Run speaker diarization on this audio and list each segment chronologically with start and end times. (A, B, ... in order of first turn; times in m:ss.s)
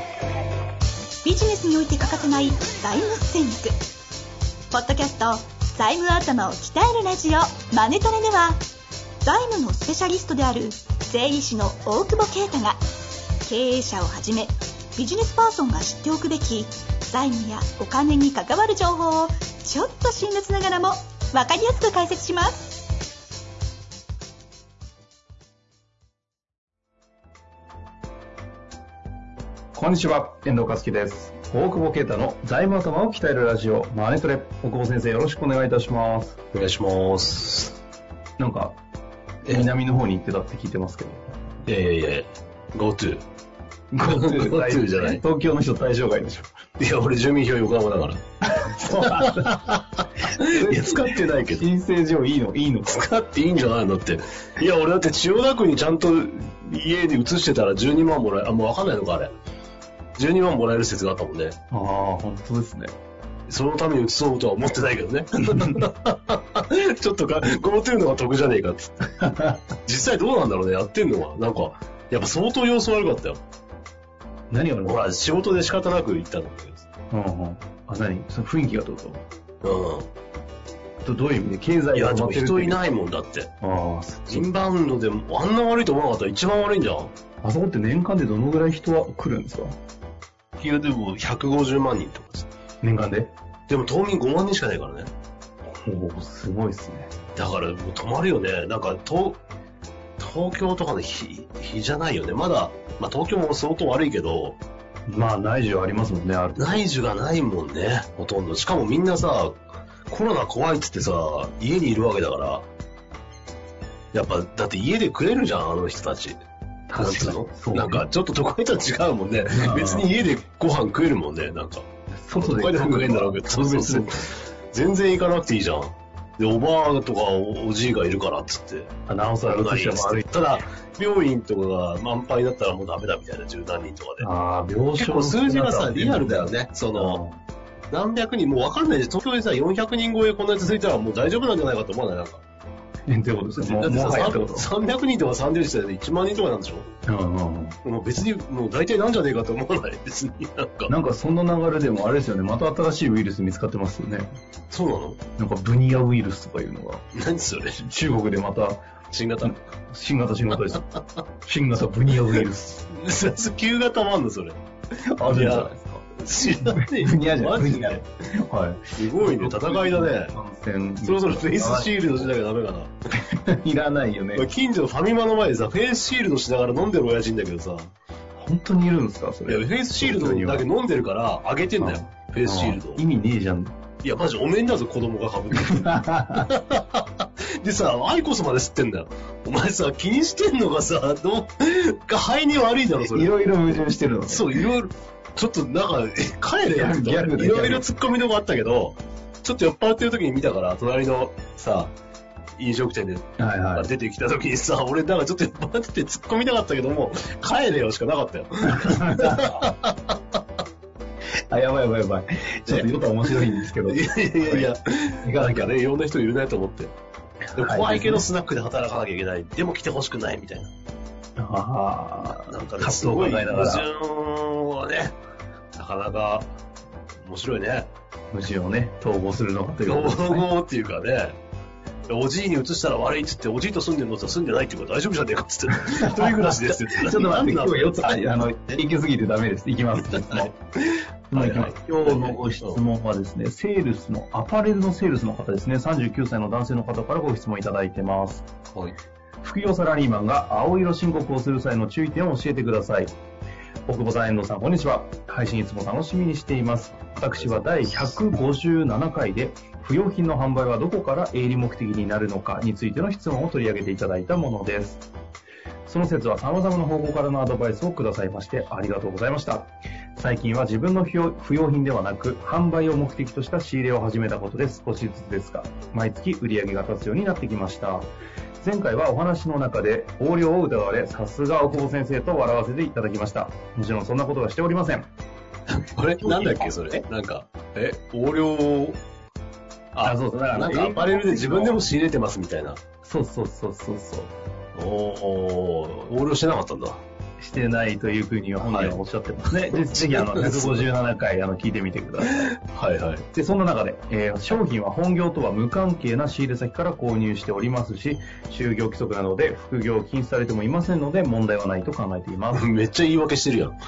0:01.2-0:03.7 A
0:04.7-0:08.6 A
0:09.2-0:12.8 A
0:13.4-0:22.9 A
0:29.8-0:36.4 B
0:36.5-0:37.8 C
0:38.4-0:38.8 B
0:39.5-0:41.4 B
0:41.6-0:43.2 C
0:43.9-0:46.5 B
0:44.0-0:45.2 C
0:46.8-0:48.2 C
0:48.4-0:49.6 B
0:48.8-0:51.7 C
0:50.2-0:53.1 B
0:52.9-0:59.3 C
1:00.2-1:01.6 C
1:01.7-1:03.0 B
1:03.5-1:13.4 C
1:05.4-1:05.8 B
1:14.5-1:15.0 B
1:14.8-1:16.9 C
1:17.1-1:19.2 B
1:19.6-1:20.1 C
1:21.0-1:22.8 B
1:21.9-1:23.5 C
1:23.6-1:24.5 B
1:24.3-1:27.1 C
1:27.4-1:29.8 B
1:30.6-1:32.5 C
1:32.8-1:33.4 B
1:33.7-1:35.1 C
1:35.8-1:37.1 B
1:37.4-1:39.4 C
1:40.2-1:44.6 C
1:45.1-1:46.8 B
1:46.6-1:52.7 C
1:54.1-1:56.4 C
1:56.9-1:58.1 B
1:57.0-2:08.9 C
1:59.5-2:00.1 B
2:02.2-2:04.2 B
2:09.1-2:10.2 B
2:09.4-2:14.3 C
2:14.2-2:17.4 B
2:15.0-2:17.2 C
2:17.9-2:22.4 C
2:23.1-2:24.7 B
2:23.5-2:26.9 C
2:27.1-2:27.8 B
2:27.8-2:30.9 C
2:30.9-2:34.3 B
2:34.7-2:35.2 C
2:35.4-2:37.1 B
2:37.1-2:37.9 C
2:37.8-2:38.9 B
2:39.1-2:39.6 C
2:39.4-2:40.9 B
2:41.4-2:42.9 B
2:42.3-2:44.6 C
2:45.2-2:52.3 B
2:45.2-2:48.0 C
2:49.0-2:50.4 C
2:51.0-2:52.9 C
2:53.3-2:54.5 B
2:54.3-2:57.9 C
2:58.4-3:00.7 B
2:59.5-3:03.0 C
3:01.8-3:03.8 B
3:04.0-3:13.3 C
3:05.5-3:06.5 B
3:13.0-3:14.6 B
3:14.3-3:21.9 C
3:16.7-3:17.9 B
3:22.6-3:30.2 C
3:23.4-3:23.9 B
3:28.6-3:29.6 B
3:31.5-3:35.8 B
3:32.7-3:36.9 C
3:37.6-3:38.3 B
3:37.6-3:40.7 C
3:41.4-3:43.8 B
3:42.2-3:45.2 C
3:45.8-3:46.5 C
3:47.2-3:47.9 C
3:48.3-3:50.5 B
3:49.8-3:51.4 C
3:52.1-3:58.4 C
3:55.7-4:00.5 B
4:00.0-4:02.8 C
4:01.3-4:08.5 B
4:08.7-4:09.0 C
4:09.4-4:13.1 B
4:13.9-4:25.0 B
4:17.1-4:18.2 C
4:25.9-4:45.1 B
4:45.7-4:49.0 C
4:46.2-4:47.0 B
4:49.9-4:52.8 C
4:50.0-4:51.8 B
4:53.0-4:54.3 B
4:54.8-4:57.0 C
4:57.4-5:02.5 B
4:58.6-4:59.0 C
4:59.7-5:00.9 C
5:02.2-5:03.3 C
5:03.3-5:12.7 B
5:12.5-5:13.8 C